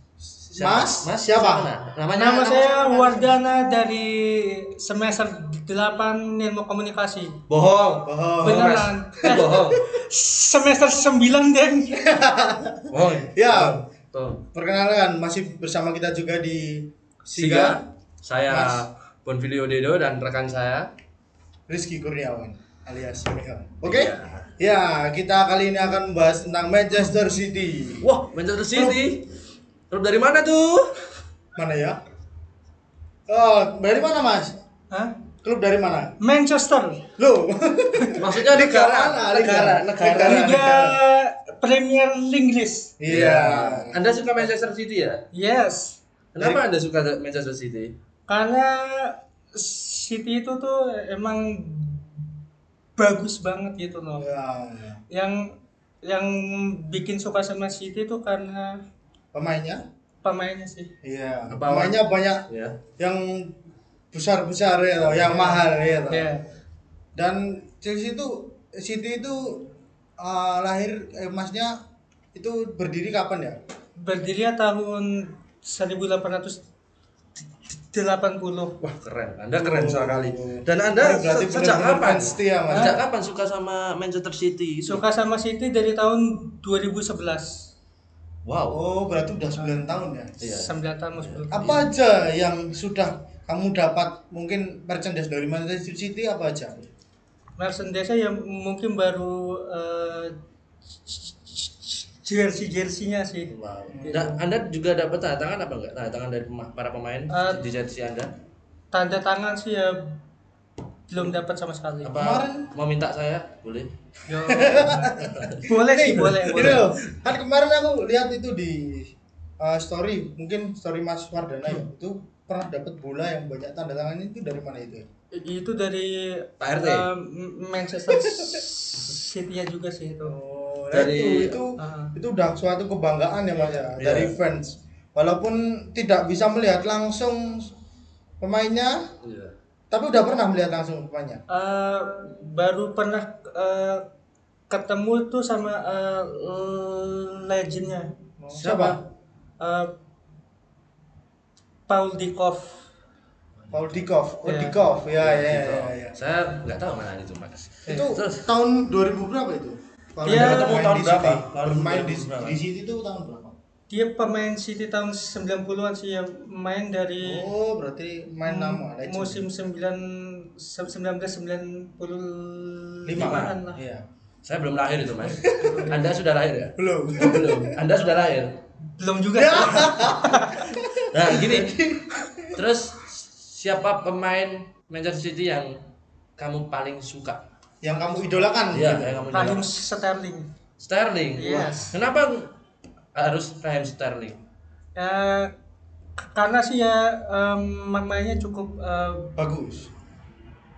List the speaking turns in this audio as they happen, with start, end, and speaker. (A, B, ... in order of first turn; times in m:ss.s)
0:00.5-0:01.7 A
0:00.5-0:03.2 B
0:02.1-0:07.3 C
0:07.5-0:09.8 B
0:08.0-0:09.4 A
0:08.4-0:12.0 C
0:12.0-0:13.8 A
0:12.9-0:14.4 B
0:14.5-0:17.8 A
0:17.3-0:20.9 B
0:18.5-0:18.9 A
0:21.7-0:28.0 A
0:23.8-0:24.5 B
0:28.0-0:29.2 B
0:28.7-0:29.1 A
0:29.9-0:30.9 B
0:31.6-0:32.0 A
0:33.3-0:34.6 A
0:35.4-0:36.1 A
0:36.2-0:37.1 C
0:37.2-0:41.0 A
0:38.2-0:40.5 B
0:40.2-0:42.9 C
0:43.0-0:44.4 A
0:43.1-0:45.2 B
0:45.3-0:46.0 C
0:46.3-0:47.9 B
0:48.3-0:52.2 C
0:53.0-0:54.3 C
0:54.2-0:55.0 A
0:55.1-0:55.4 C
0:56.0-0:58.7 C
0:59.3-0:59.8 A
1:00.2-1:00.9 C
1:01.0-1:02.4 A
1:01.5-1:02.8 B
1:03.0-1:03.5 A
1:04.1-1:06.3 A
1:05.2-1:06.4 C
1:07.1-1:09.6 A
1:10.2-1:11.7 A
1:12.3-1:13.6 A
1:14.0-1:16.6 C
1:17.8-1:18.8 C
1:18.8-1:25.0 B
1:19.6-1:23.0 A
1:22.7-1:22.9 C
1:24.8-1:27.5 C
1:28.4-1:28.8 B
1:28.7-1:30.3 A
1:29.6-1:29.9 C
1:30.4-1:31.9 B
1:30.5-1:31.6 C
1:31.5-1:36.9 A
1:37.6-1:40.3 C
1:41.0-1:44.4 C
1:43.5-1:48.3 B
1:43.9-1:44.2 A
1:47.3-1:47.6 C
1:48.9-1:50.0 C
1:51.1-1:52.2 C
1:52.0-1:53.9 B
1:52.2-1:52.7 A
1:54.3-1:55.1 C
1:54.5-2:05.0 A
1:55.0-1:55.6 B
1:55.6-1:56.8 C
1:56.3-1:57.4 B
2:05.3-2:10.3 C
2:06.6-2:07.1 B
2:10.2-2:17.7 A
2:10.9-2:11.6 B
2:11.8-2:12.1 C
2:14.0-2:14.3 B
2:18.4-2:19.0 A
2:19.2-2:19.5 B
2:19.9-2:21.4 A
2:21.5-2:24.0 C
2:24.7-2:28.1 C
2:28.4-2:29.0 A
2:28.6-2:28.9 B
2:28.6-2:29.0 C
2:29.6-2:29.9 C
2:31.9-2:32.8 C
2:33.6-2:34.0 B
2:33.7-2:36.2 A
2:34.4-2:34.8 C
2:35.2-2:38.5 B
2:37.9-2:43.5 A
2:40.2-2:40.8 C
2:40.2-2:42.6 B
2:43.9-2:47.4 C
2:47.2-2:49.4 A
2:48.4-2:53.8 C
2:53.0-2:54.0 A
2:53.2-2:53.6 B
2:54.4-2:58.5 B
2:55.2-2:56.1 A
2:55.6-2:56.1 C
2:56.8-2:57.8 A
2:59.0-3:00.8 C
2:59.3-3:02.6 A
3:01.1-3:01.8 B
3:02.5-3:05.7 B
3:06.4-3:07.4 B
3:07.8-3:09.3 A
3:07.9-3:08.5 C
3:08.7-3:09.8 B
3:09.3-3:10.5 C
3:10.8-3:12.5 B
3:11.4-3:12.0 C
3:13.1-3:14.4 B
3:15.0-3:15.5 C
3:16.2-3:19.3 C
3:19.4-3:19.9 A